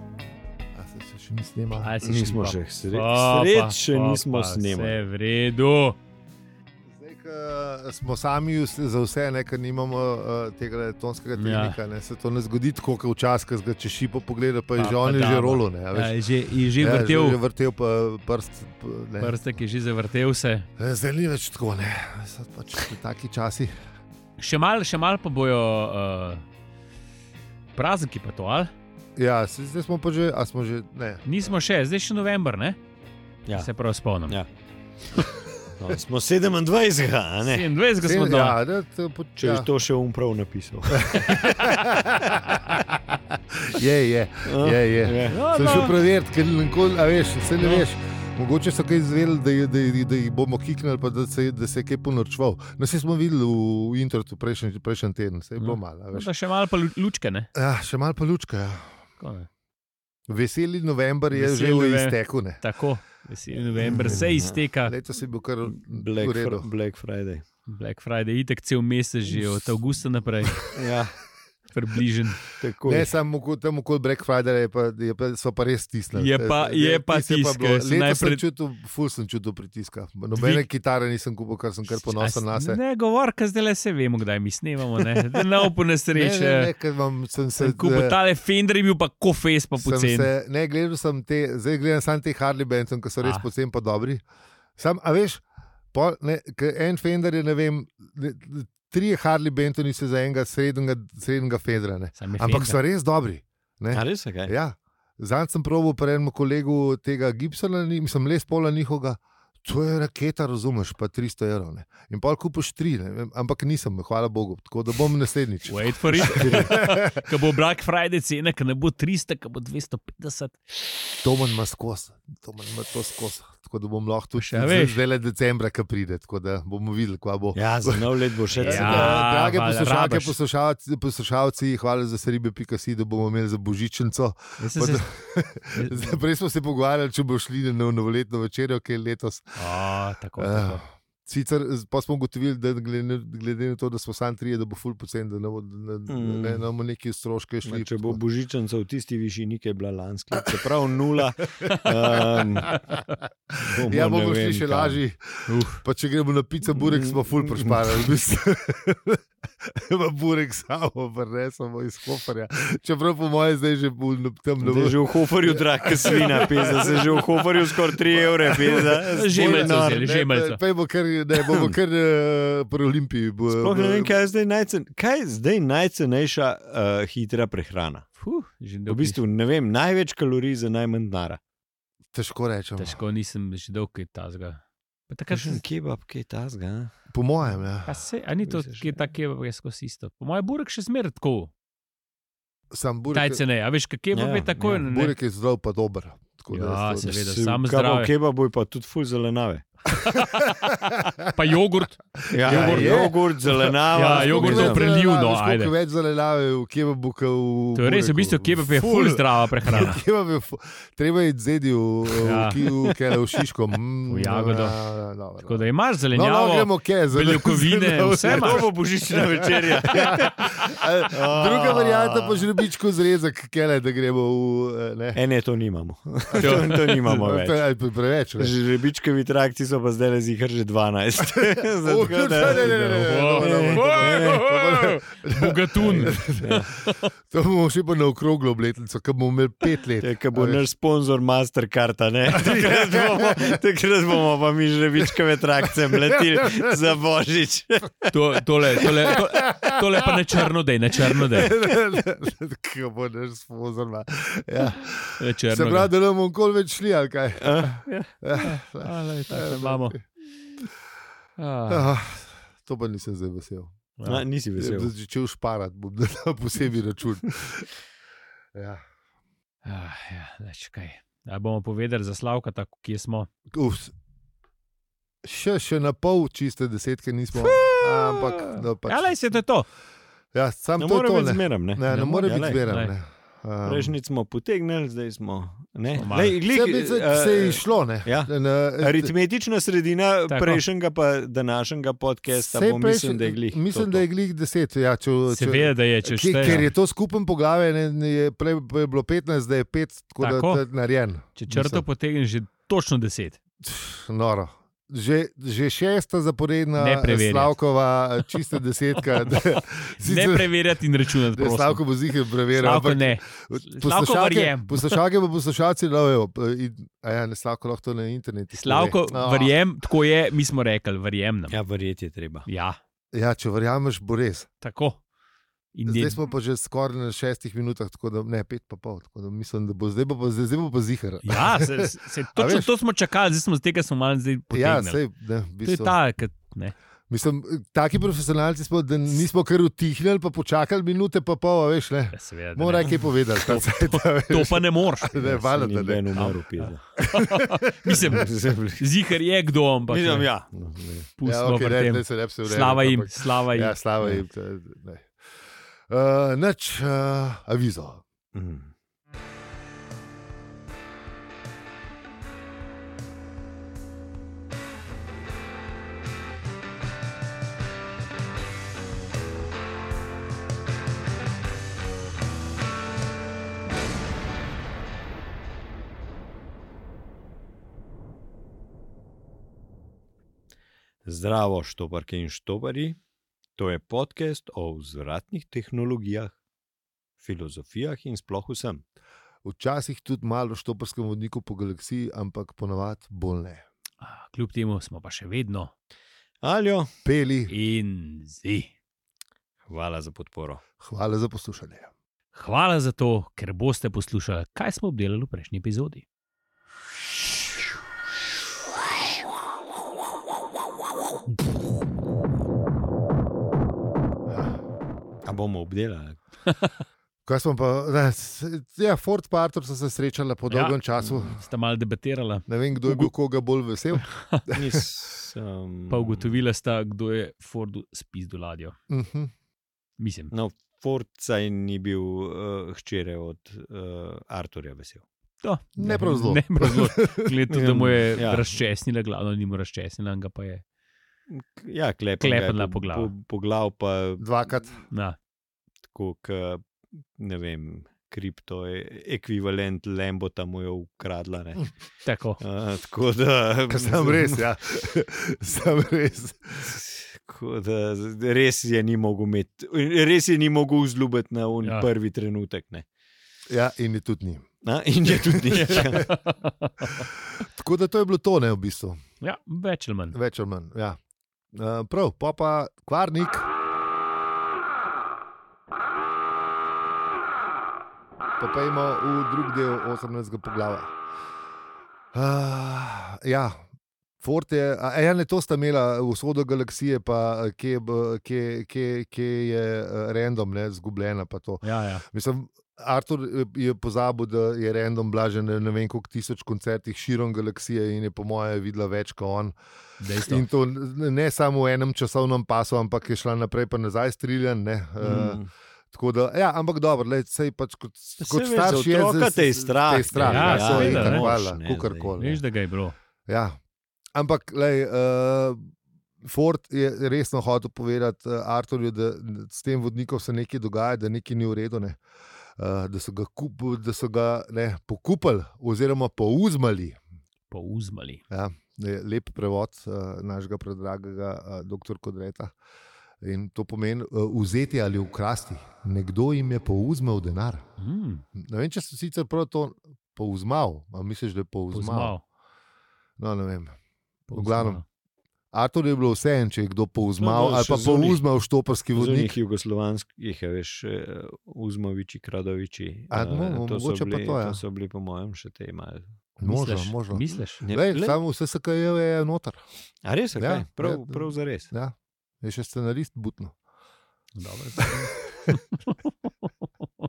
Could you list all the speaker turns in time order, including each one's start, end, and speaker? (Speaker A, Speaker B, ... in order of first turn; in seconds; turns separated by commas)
Speaker A: 0.7-1.9, Speaker B: 1.8-6.0, Speaker C: 2.0-5.0, Speaker A: 6.8-19.3, Speaker B: 11.4-11.8, Speaker B: 14.8-17.4, Speaker B: 19.2-20.7, Speaker A: 20.8-23.7, Speaker B: 24.4-26.4, Speaker B: 27.8-28.7, Speaker A: 29.1-31.2, Speaker B: 31.2-32.8, Speaker B: 33.5-34.4, Speaker A: 35.2-36.0, Speaker C: 35.8-37.7, Speaker B: 37.5-38.6, Speaker A: 38.0-39.7, Speaker C: 39.4-41.6, Speaker A: 41.0-56.3, Speaker C: 44.5-45.4, Speaker B: 45.3-45.9, Speaker B: 47.6-47.9, Speaker B: 55.6-57.5, Speaker A: 57.5-59.0, Speaker B: 59.2-59.5, Speaker A: 60.3-62.6, Speaker B: 61.3-65.0, Speaker C: 63.8-64.6, Speaker A: 64.9-66.7, Speaker C: 65.6-67.4, Speaker B: 67.7-70.7, Speaker A: 69.3-70.7, Speaker C: 70.7-71.2, Speaker B: 71.7-72.4, Speaker C: 72.6-73.1, Speaker A: 72.8-82.8, Speaker B: 76.1-78.4, Speaker B: 80.3-80.6, Speaker B: 81.9-86.7, Speaker A: 86.1-88.2, Speaker B: 87.6-90.3, Speaker A: 89.8-94.2, Speaker A: 94.8-117.3, Speaker B: 102.2-102.8, Speaker C: 103.9-104.5, Speaker B: 115.7-120.6, Speaker C: 116.2-116.8, Speaker A: 121.2-139.6, Speaker B: 124.4-125.0, Speaker C: 127.5-129.2, Speaker B: 128.6-130.3, Speaker B: 134.6-135.1, Speaker B: 135.7-136.2, Speaker B: 139.6-140.8, Speaker A: 140.4-148.2, Speaker C: 146.1-146.6, Speaker C: 147.6-152.8, Speaker A: 151.6-174.2, Speaker C: 153.6-155.0, Speaker B: 155.5-155.8, Speaker C: 156.7-158.0, Speaker C: 164.6-170.1, Speaker B: 169.1-170.6, Speaker C: 171.4-171.7, Speaker C: 173.5-178.1, Speaker B: 178.2-179.2, Speaker C: 178.9-181.4, Speaker A: 182.1-183.0, Speaker B: 182.8-185.6, Speaker C: 185.3-186.9, Speaker A: 187.1-188.0, Speaker B: 187.8-191.5, Speaker C: 188.4-189.0, Speaker A: 192.7-193.4, Speaker B: 193.1-195.1, Speaker C: 194.1-194.8, Speaker A: 194.6-197.2, Speaker B: 196.5-198.1, Speaker C: 197.0-199.7, Speaker B: 199.9-203.0, Speaker A: 200.1-201.3, Speaker A: 202.3-225.2, Speaker C: 202.3-204.9, Speaker B: 203.9-205.7, Speaker B: 207.8-210.0, Speaker B: 212.2-213.0, Speaker B: 214.1-214.8, Speaker B: 215.4-218.7, Speaker C: 218.2-222.5, Speaker C: 225.1-227.6, Speaker A: 226.3-228.5, Speaker B: 226.3-227.2, Speaker C: 228.4-234.4, Speaker A: 231.2-240.6, Speaker B: 232.4-237.1, Speaker C: 236.4-236.7, Speaker C: 240.0-248.9, Speaker A: 242.3-243.6, Speaker A: 245.7-246.7, Speaker B: 248.1-251.5, Speaker A: 248.8-250.2, Speaker A: 251.1-257.7, Speaker B: 255.2-255.9, Speaker C: 257.4-257.9, Speaker B: 257.9-260.0, Speaker A: 258.2-260.0, Speaker B: 261.4-261.9, Speaker A: 261.7-263.8, Speaker B: 264.0-264.2, Speaker C: 264.0-264.9, Speaker A: 264.6-267.8, Speaker A: 268.5-268.8, Speaker B: 269.6-273.3, Speaker A: 273.5-273.9, Speaker A: 275.2-279.1, Speaker B: 277.3-279.7, Speaker A: 280.3-283.9, Speaker C: 280.8-282.6, Speaker B: 281.9-282.9, Speaker C: 283.6-294.0, Speaker B: 285.9-286.4, Speaker A: 286.4-289.1, Speaker B: 290.3-290.6, Speaker A: 292.3-301.8, Speaker B: 295.3-296.7, Speaker B: 300.2-300.6, Speaker B: 301.4-303.4, Speaker A: 303.6-310.5, Speaker B: 306.8-307.5, Speaker B: 309.2-311.8, Speaker A: 311.1-319.6, Speaker B: 312.5-315.0, Speaker B: 318.5-321.6, Speaker C: 321.5-322.5, Speaker B: 322.5-322.8, Speaker A: 323.1-324.5, Speaker B: 324.6-325.0, Speaker B: 325.7-326.2, Speaker A: 325.9-332.7, Speaker B: 331.2-335.0, Speaker A: 334.5-336.0, Speaker B: 335.6-336.7, Speaker A: 337.1-346.1, Speaker B: 342.1-345.5, Speaker C: 345.5-346.8, Speaker B: 346.1-350.3, Speaker A: 347.1-348.2, Speaker C: 348.1-348.8, Speaker C: 349.9-351.1, Speaker B: 351.2-353.8, Speaker A: 351.2-355.1, Speaker A: 355.9-358.0, Speaker C: 358.3-358.7, Speaker C: 381.0-383.0, Speaker C: 383.6-386.3, Speaker C: 387.2-388.8, Speaker A: 389.4-393.6, Speaker B: 394.0-395.7, Speaker C: 396.4-396.9, Speaker A: 397.0-397.5, Speaker B: 397.5-398.7, Speaker C: 399.7-400.6, Speaker A: 400.8-401.9, Speaker B: 402.3-406.0, Speaker A: 414.3-414.6, Speaker C: 415.2-416.2, Speaker B: 416.4-416.7, Speaker A: 417.2-421.4, Speaker B: 420.5-423.1, Speaker A: 422.5-424.8, Speaker B: 423.9-424.5, Speaker C: 424.5-426.4, Speaker B: 425.9-428.8, Speaker A: 428.9-429.3, Speaker B: 430.0-430.3, Speaker C: 430.3-435.0, Speaker B: 435.4-440.6, Speaker A: 435.8-437.3, Speaker C: 437.5-438.4, Speaker C: 441.3-444.4, Speaker B: 442.2-443.1, Speaker A: 444.2-444.8, Speaker B: 444.9-445.1, Speaker C: 445.9-451.7, Speaker B: 452.0-452.4, Speaker C: 452.4-454.4, Speaker A: 453.7-456.7, Speaker C: 456.6-462.8, Speaker A: 463.5-464.4, Speaker C: 464.6-466.1, Speaker A: 465.1-466.1, Speaker B: 465.5-467.1, Speaker A: 467.0-469.0, Speaker B: 469.2-470.2, Speaker A: 470.1-471.0, Speaker A: 471.5-473.5, Speaker A: 478.4-480.9, Speaker A: 482.1-483.6, Speaker A: 484.2-499.6, Speaker B: 491.6-492.0, Speaker B: 500.0-500.4, Speaker A: 500.2-505.4, Speaker C: 505.0-505.5, Speaker A: 505.9-512.4, Speaker C: 508.2-512.2, Speaker B: 510.2-511.3, Speaker B: 512.2-512.9, Speaker A: 513.3-513.6, Speaker A: 514.1-515.7, Speaker A: 516.2-522.0, Speaker A: 522.6-527.0, Speaker B: 527.5-528.2, Speaker A: 528.3-532.5, Speaker A: 533.2-537.6, Speaker B: 537.8-538.2, Speaker A: 538.3-542.1, Speaker B: 541.7-542.2, Speaker A: 543.2-543.7, Speaker B: 544.3-544.8, Speaker A: 544.3-544.8, Speaker A: 545.5-549.4, Speaker C: 547.2-548.2, Speaker C: 548.9-556.1, Speaker A: 553.1-554.6, Speaker A: 556.4-559.6, Speaker B: 556.4-557.6, Speaker C: 557.6-558.2, Speaker C: 560.0-561.7, Speaker A: 560.4-563.5, Speaker B: 564.3-566.9, Speaker A: 564.8-565.5